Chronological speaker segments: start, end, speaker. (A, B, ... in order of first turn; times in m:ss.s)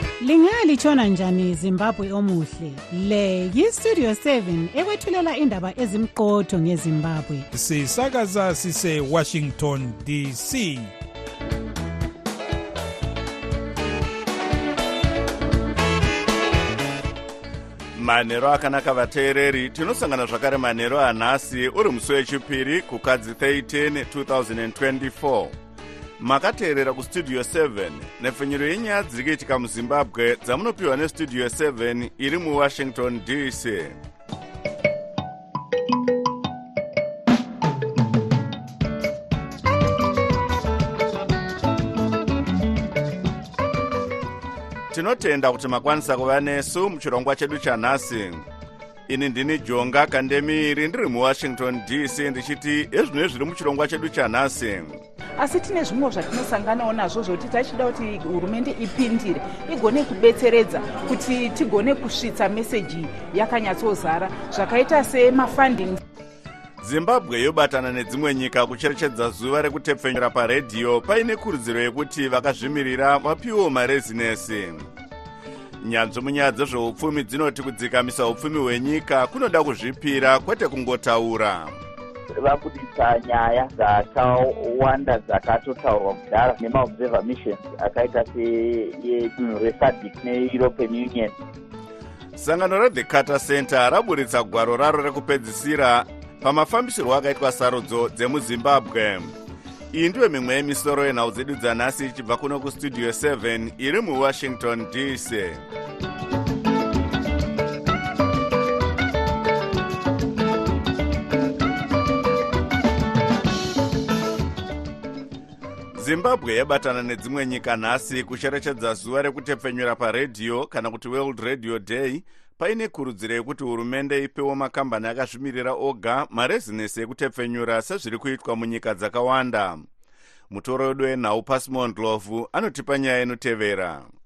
0:00.2-0:07.5 A
0:07.6-0:10.6 B
0:18.0-0:25.5 C
0:26.2-0:34.0 C
0:44.9-0:48.4 C
0:49.1-0:55.0 C
0:55.4-1:06.0 D
1:06.8-1:14.9 C
1:15.8-1:21.7 C
1:22.4-1:31.3 E
1:32.4-1:39.3 C
1:39.9-1:45.6 C
1:56.0-2:09.8 C
2:10.5-2:14.1 C